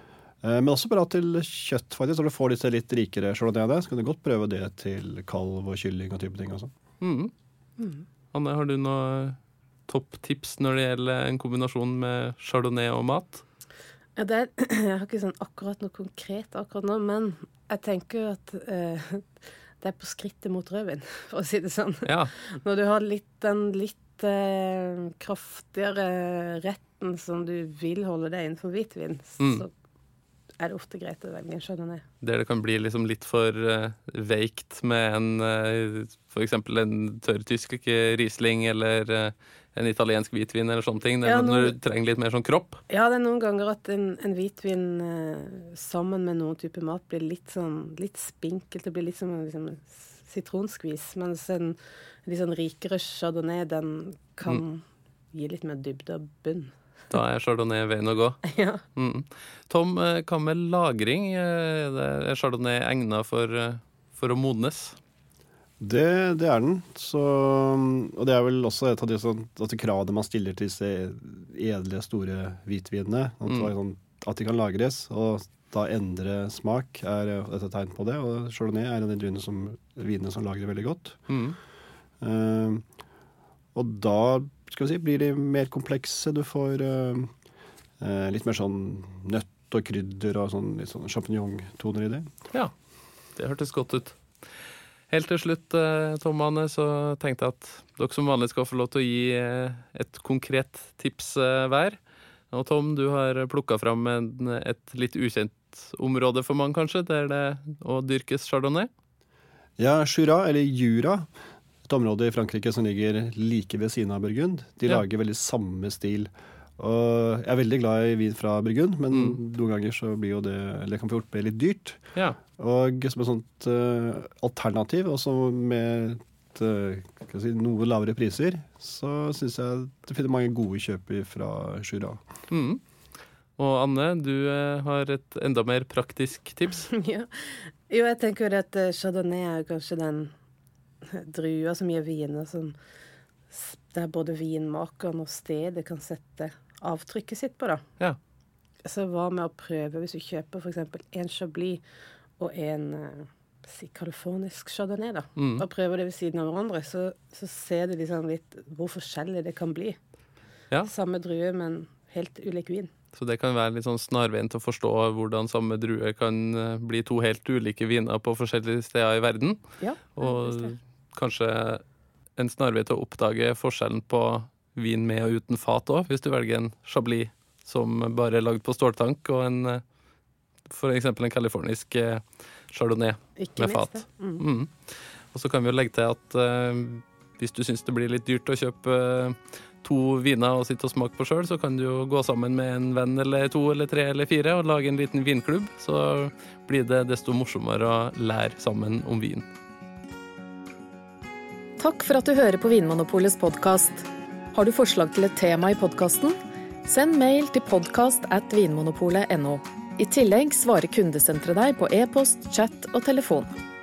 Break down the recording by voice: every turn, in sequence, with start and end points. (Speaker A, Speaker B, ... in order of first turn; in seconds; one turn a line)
Speaker A: 0.4-6.7
Speaker B: 7.0-7.3
Speaker C: 7.8-8.0
Speaker B: 8.3-9.4
Speaker B: 9.9-13.4
Speaker C: 14.2-29.7
Speaker C: 30.6-32.0
Speaker B: 32.2-42.8
Speaker C: 41.2-41.7
Speaker C: 42.9-56.7
Speaker B: 57.1-65.0
Speaker C: 58.5-58.8
Speaker A: 65.8-81.2
Speaker B: 81.3-81.6
Speaker A: 82.2-82.8
Speaker A: 83.8-87.3
Speaker A: 88.0-92.3
Speaker B: 93.4-94.2
Speaker B: 95.1-102.0
Speaker B: 102.5-108.9
Speaker A: 109.8-111.3
Speaker A: 111.9-122.0
Speaker B: 119.1-119.4
Speaker A: 122.6-132.2
Speaker B: 132.5-132.8
Speaker B: 133.6-136.9
Speaker C: 136.9-140.3
Speaker C: 141.0-142.8
Speaker C: 143.5-147.8
Speaker C: 148.8-151.8
Speaker C: 152.4-160.0
Speaker B: 155.4-155.6
Speaker C: 160.9-162.9
Speaker B: 163.2-169.6
Speaker C: 169.8-170.7
Speaker B: 170.2-171.8
Speaker B: 172.4-179.8
Speaker B: 180.7-184.7
Speaker C: 183.4-184.4
Speaker B: 185.3-199.5
Speaker D: 201.8-213.5